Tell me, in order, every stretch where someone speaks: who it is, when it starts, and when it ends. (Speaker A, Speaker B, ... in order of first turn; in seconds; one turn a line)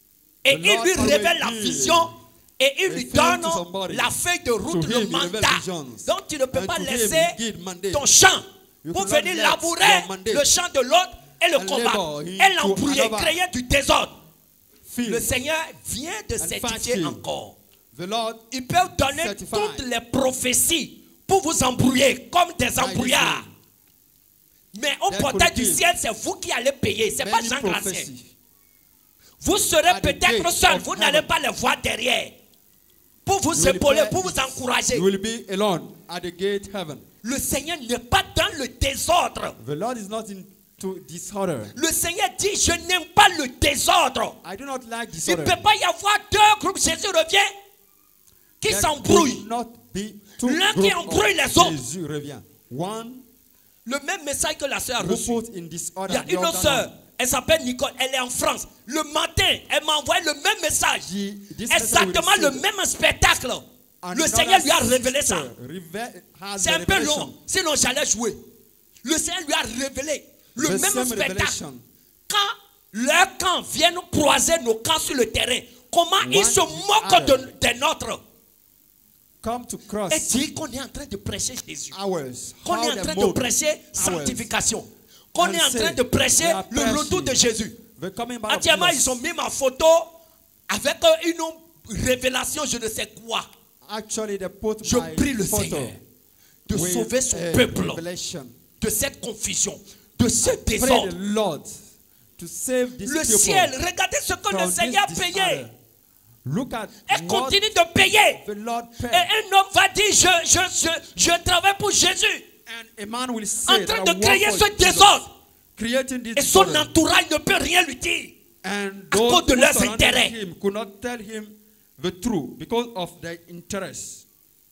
Speaker A: 0.5-7.4
Speaker B: 0.5-2.1
Speaker B: 2.9-4.1
Speaker B: 4.7-8.1
Speaker A: 7.9-14.2
Speaker B: 8.8-10.5
Speaker B: 11.6-13.4
Speaker B: 14.9-15.3
Speaker A: 15.1-17.6
Speaker B: 16.4-17.2
Speaker B: 17.9-18.5
Speaker A: 18.5-23.5
Speaker B: 19.1-19.8
Speaker B: 22.8-23.5
Speaker A: 24.7-28.1
Speaker B: 25.1-25.8
Speaker B: 27.2-28.3
Speaker A: 29.4-32.4
Speaker B: 29.9-31.3
Speaker A: 33.3-35.1
Speaker B: 33.5-37.0
Speaker A: 37.2-39.6
Speaker B: 39.6-41.8
Speaker A: 41.8-44.4
Speaker B: 44.4-45.7
Speaker A: 45.2-47.5
Speaker A: 48.6-49.5
Speaker B: 48.6-53.2
Speaker A: 50.4-51.8
Speaker A: 53.9-55.4
Speaker B: 55.0-56.9
Speaker A: 56.1-61.1
Speaker B: 61.0-62.6
Speaker A: 61.7-65.5
Speaker B: 64.0-67.3
Speaker A: 66.6-68.4
Speaker A: 69.0-71.6
Speaker B: 70.6-71.8
Speaker A: 72.3-78.2
Speaker B: 76.2-77.5
Speaker B: 79.4-80.3
Speaker A: 80.1-82.0
Speaker B: 81.9-83.4
Speaker A: 82.7-87.8
Speaker B: 84.0-84.5
Speaker B: 85.4-87.4
Speaker B: 88.0-89.2
Speaker A: 88.5-90.1
Speaker A: 90.7-93.5
Speaker B: 93.8-96.0
Speaker A: 94.8-96.0
Speaker A: 96.7-98.0
Speaker B: 96.7-98.6
Speaker A: 98.8-101.2
Speaker B: 100.4-101.8
Speaker B: 102.4-103.7
Speaker A: 103.0-105.7
Speaker B: 104.5-105.7
Speaker B: 106.5-109.3
Speaker A: 107.1-108.4
Speaker A: 109.1-112.5
Speaker B: 112.7-115.2
Speaker A: 113.7-115.3
Speaker B: 115.8-116.9
Speaker A: 116.4-118.4
Speaker B: 118.6-124.2
Speaker A: 119.1-120.3